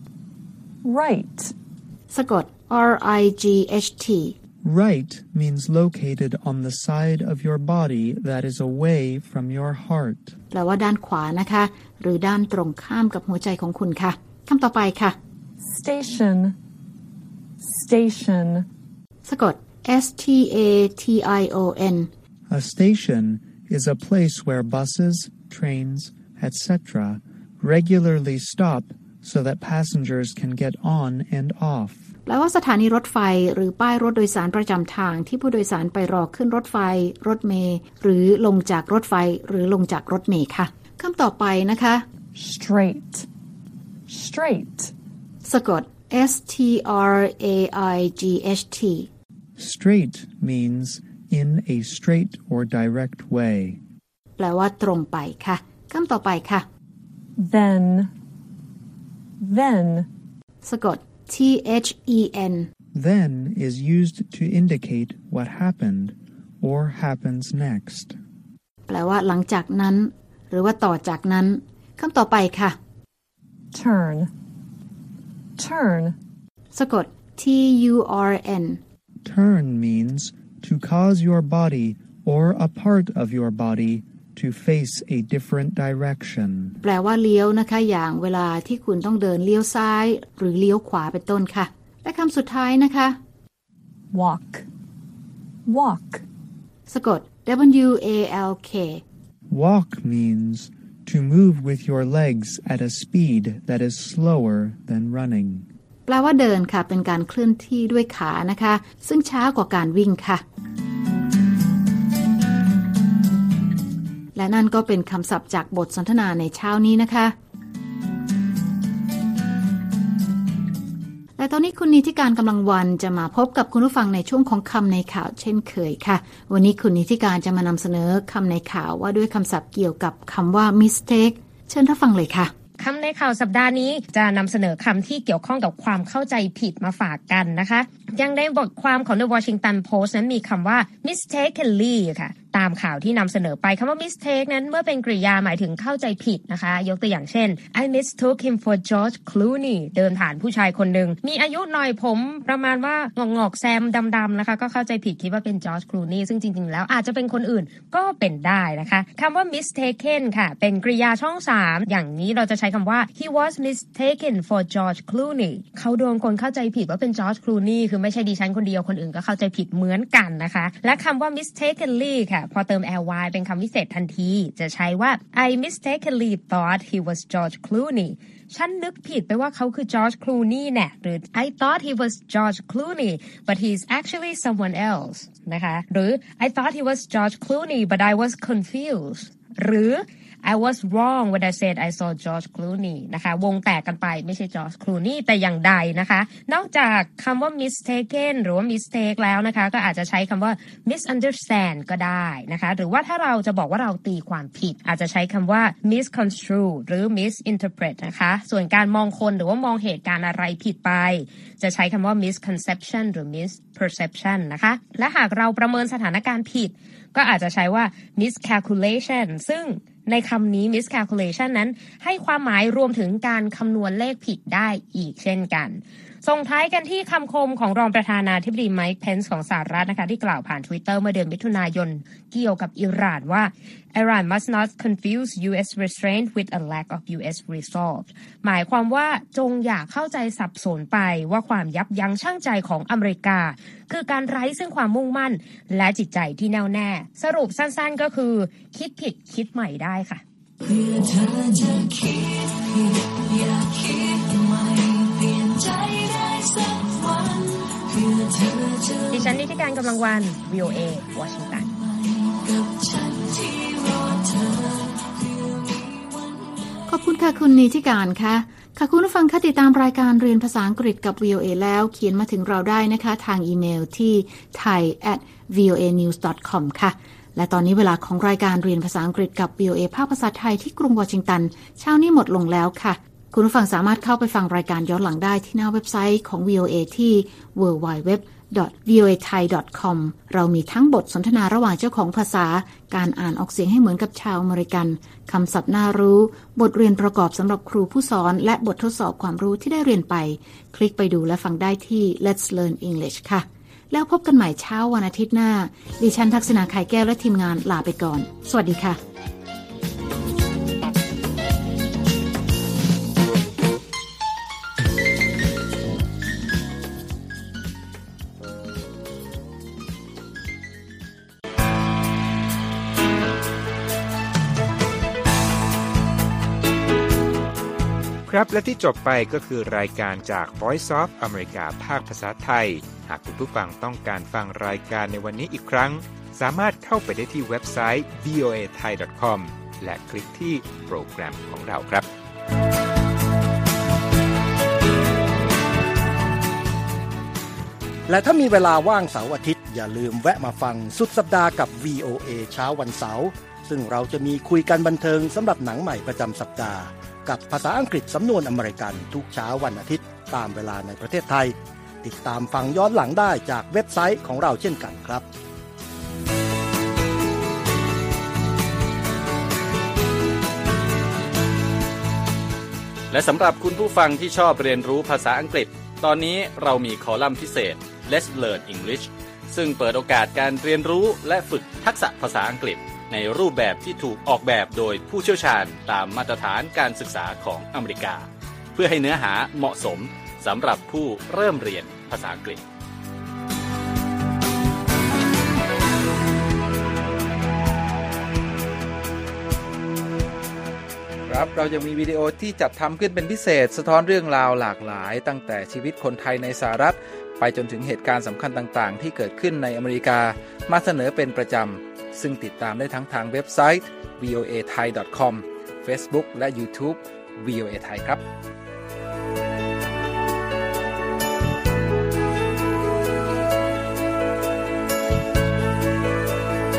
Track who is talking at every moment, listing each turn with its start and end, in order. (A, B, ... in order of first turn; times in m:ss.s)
0:00.8-0:01.5 A
0:02.1-0:04.4 B
0:04.6-0:10.4 C
0:10.5-0:15.2 B
0:15.6-0:16.6 A
0:17.6-0:18.7 A
0:19.3-0:22.1 B
0:22.5-0:32.0 C
0:32.3-0:42.0 B
0:42.4-0:43.3 A
0:44.1-0:44.9 A
0:45.4-0:49.1 B
0:49.6-0:53.8 C
0:54.4-0:56.7 B
0:57.4-0:58.1 A
0:59.4-1:00.1 A
1:00.6-1:02.7 B
1:02.9-1:08.2 C
1:08.9-1:12.8 B
1:13.7-1:14.3 A
1:15.6-1:16.2 A
1:16.7-1:18.8 B
1:19.2-1:26.8 C
1:26.8-1:33.2 B
1:34.1-1:34.7 A
1:35.7-1:36.2 A
1:36.9-1:39.0 B
1:39.5-1:45.7 C
1:46.1-1:50.4 B
1:54.4-1:57.3 B
2:01.4-2:12.5 B
2:12.8-4:10.2 D
4:19.1-4:21.7 D
4:26.9-5:09.0 B
5:28.3-5:42.1 E
5:48.1-6:05.3 F
6:13.1-6:32.6 G
6:41.3-6:58.2 H